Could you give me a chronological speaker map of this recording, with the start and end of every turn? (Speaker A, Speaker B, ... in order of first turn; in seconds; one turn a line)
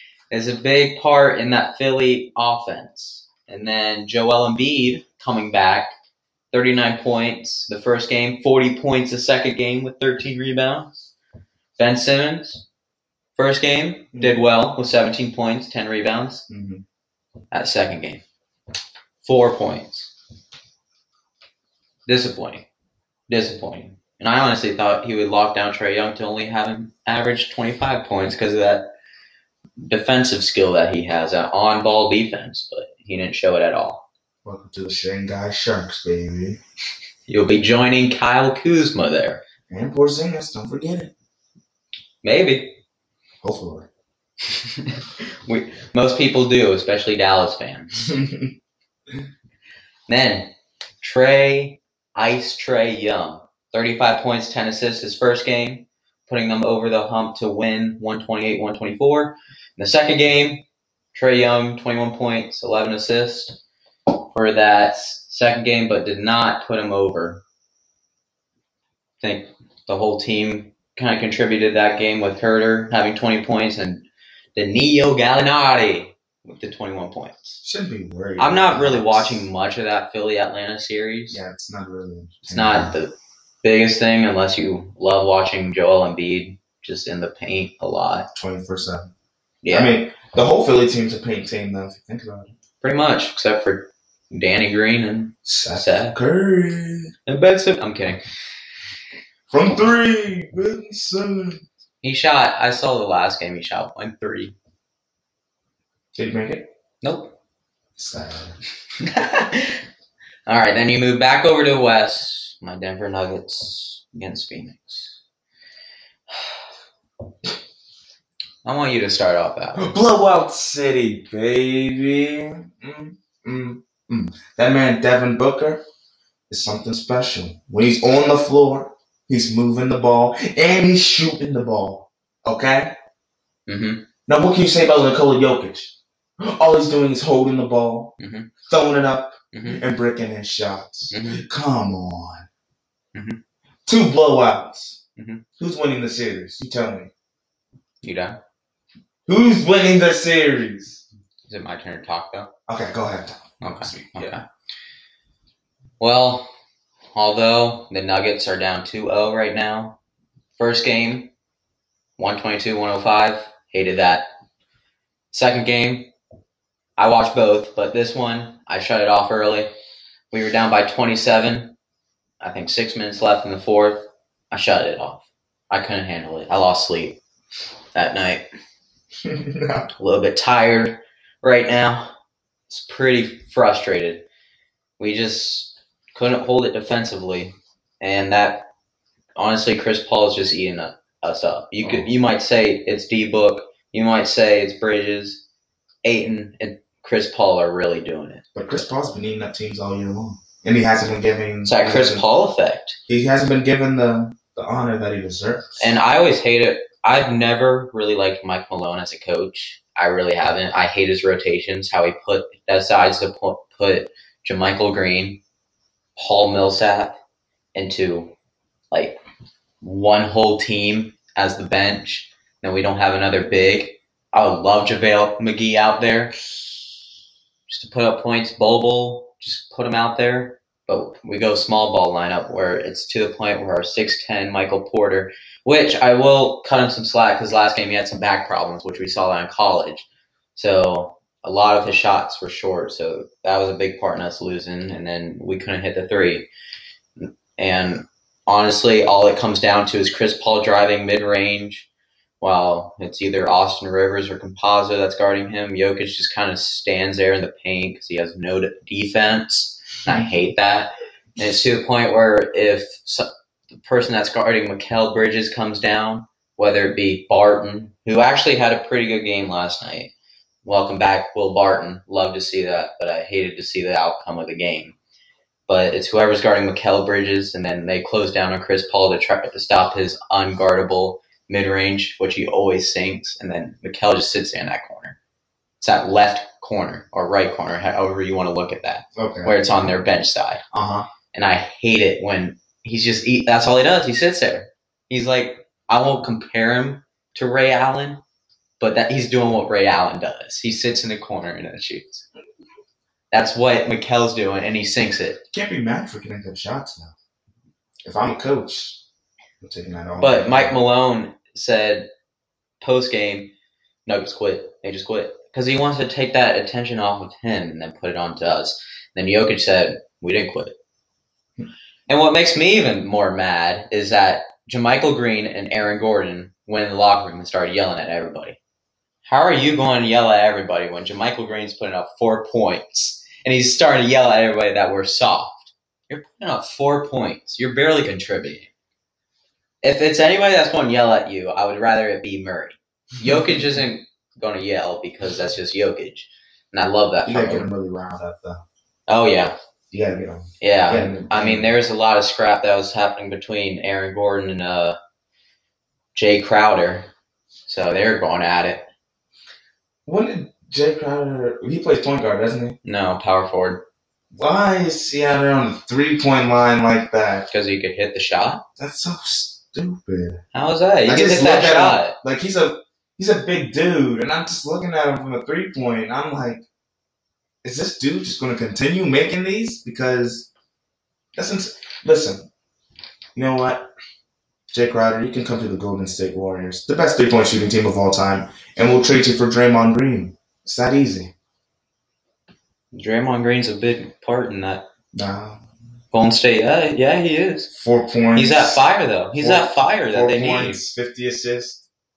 Speaker A: 0.3-5.9
Speaker A: 6.5-11.0
Speaker A: 11.8-12.7
Speaker A: 13.4-16.5
Speaker B: 14.1-14.4
Speaker B: 16.5-16.8
Speaker A: 17.5-18.2
Speaker A: 19.2-20.1
Speaker A: 22.1-22.7
Speaker A: 23.3-28.9
Speaker A: 29.8-34.1
Speaker B: 34.5-36.6
Speaker A: 37.3-39.4
Speaker B: 39.7-41.1
Speaker A: 42.2-42.8
Speaker B: 43.4-43.9
Speaker A: 44.5-48.1
Speaker B: 48.0-48.5
Speaker A: 50.1-63.6
Speaker A: 64.2-67.4
Speaker A: 69.2-77.6
Speaker B: 77.6-79.5
Speaker A: 78.4-81.4
Speaker B: 81.3-83.0
Speaker A: 82.4-83.1
Speaker A: 83.6-88.3
Speaker B: 88.3-89.1
Speaker A: 89.6-90.0
Speaker B: 89.7-92.5
Speaker A: 92.8-96.2
Speaker B: 95.5-97.1
Speaker A: 97.3-98.2
Speaker B: 99.5-101.6
Speaker A: 102.0-104.5
Speaker B: 106.1-106.7
Speaker A: 107.0-107.4
Speaker B: 108.0-108.6
Speaker A: 109.0-109.8
Speaker A: 110.5-115.2
Speaker A: 118.6-120.0
Speaker B: 119.8-125.8
Speaker B: 126.5-132.9
Speaker A: 133.7-134.1
Speaker B: 134.3-138.2
Speaker A: 138.2-138.5
Speaker B: 138.7-142.5
Speaker A: 139.5-139.8
Speaker A: 141.1-141.4
Speaker A: 143.1-143.4
Speaker B: 143.9-145.0
Speaker A: 145.2-145.4
Speaker B: 145.6-147.1
Speaker A: 148.0-148.4
Speaker B: 149.3-151.0
Speaker A: 151.5-152.5
Speaker B: 152.7-154.3
Speaker A: 153.6-154.4
Speaker A: 156.0-156.5
Speaker A: 157.2-160.0
Speaker A: 160.6-161.3
Speaker A: 162.2-164.3
Speaker A: 165.3-166.1
Speaker A: 167.0-169.7
Speaker A: 170.3-171.8
Speaker A: 172.4-177.2
Speaker A: 177.9-178.5
Speaker B: 179.2-179.9
Speaker A: 180.0-182.1
Speaker A: 182.7-184.2
Speaker A: 185.0-188.7
Speaker A: 189.4-195.4
Speaker A: 196.0-198.4
Speaker B: 198.6-202.2
Speaker A: 201.7-203.0
Speaker B: 203.1-206.0
Speaker A: 205.8-215.4
Speaker A: 216.2-217.2
Speaker A: 217.8-218.3
Speaker A: 218.9-219.2
Speaker A: 219.8-226.4
Speaker A: 227.7-246.5
Speaker A: 247.2-251.9
Speaker A: 252.4-270.1
Speaker A: 270.6-275.0
Speaker A: 275.7-285.2
Speaker A: 285.8-290.6
Speaker B: 289.2-289.7
Speaker B: 290.7-291.1
Speaker A: 291.3-298.2
Speaker A: 298.8-302.2
Speaker A: 303.3-305.4
Speaker B: 305.5-307.1
Speaker B: 308.1-309.0
Speaker B: 309.6-310.8
Speaker A: 310.2-312.1
Speaker A: 312.8-313.5
Speaker A: 314.1-320.8
Speaker A: 322.1-328.6
Speaker A: 329.2-338.7
Speaker A: 339.8-347.7
Speaker B: 343.2-343.6
Speaker B: 347.3-348.6
Speaker A: 349.1-349.6
Speaker B: 349.9-351.7
Speaker A: 350.6-355.0
Speaker A: 356.1-357.1
Speaker A: 357.7-358.9
Speaker B: 360.1-362.8
Speaker A: 362.9-363.8
Speaker B: 364.3-367.5
Speaker A: 367.5-368.6
Speaker B: 368.8-370.4
Speaker A: 370.5-372.2
Speaker B: 371.1-376.6
Speaker B: 377.6-380.5
Speaker B: 381.4-382.5
Speaker B: 383.4-383.9
Speaker B: 384.7-391.3
Speaker A: 392.9-394.9
Speaker B: 395.1-395.6
Speaker A: 396.1-397.7
Speaker B: 397.7-401.9
Speaker A: 398.4-400.8